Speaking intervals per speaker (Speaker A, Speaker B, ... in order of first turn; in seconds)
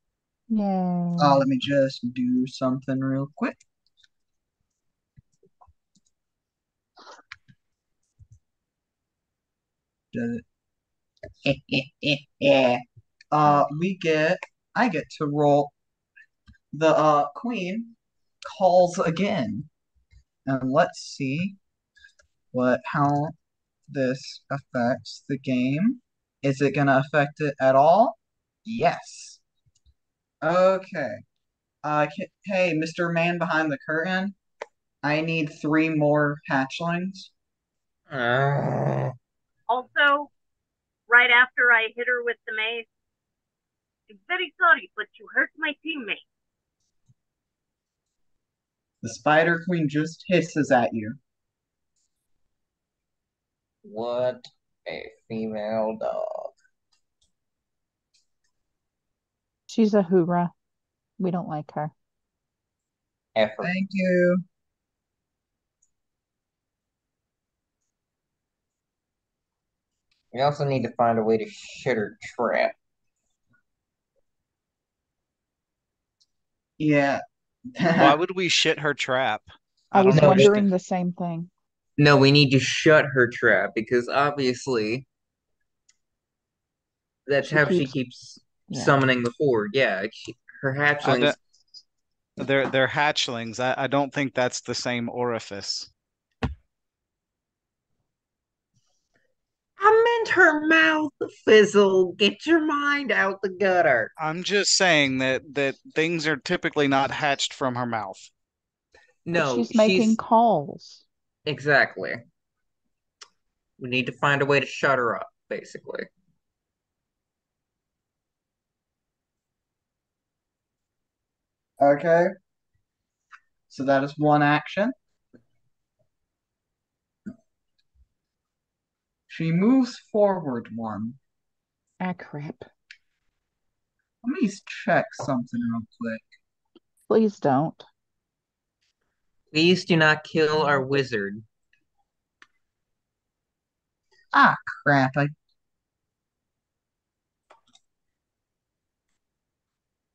Speaker A: 0.5-1.5, 59.7-60.5, 61.2-61.9, 79.9-81.5, 87.4-87.9, 88.7-89.0, 109.4-111.0, 132.0-132.7, 137.1-137.8
Speaker B: 1.2-3.6, 10.1-10.4, 11.4-15.7, 16.7-17.9, 18.4-19.7, 20.5-21.6, 22.5-23.3, 23.9-29.4, 30.4-31.2, 31.8-34.4, 35.0-37.3, 49.0-51.2, 63.6-64.4, 76.8-77.2, 77.7-78.2, 121.8-122.3, 123.7-124.9, 129.3-131.2, 134.2-136.2, 144.3-145.3
Speaker C: 38.1-39.1, 53.8-56.5, 63.4-63.7, 70.3-72.8, 80.1-80.5, 82.0-85.1, 87.3-91.4, 99.8-104.1, 109.3-110.2, 111.5-112.2, 113.8-116.1, 139.5-141.4
Speaker D: 39.7-40.3, 41.1-42.9, 44.1-46.2
Speaker E: 78.0-80.7, 91.0-91.4, 92.4-95.9, 104.2-108.3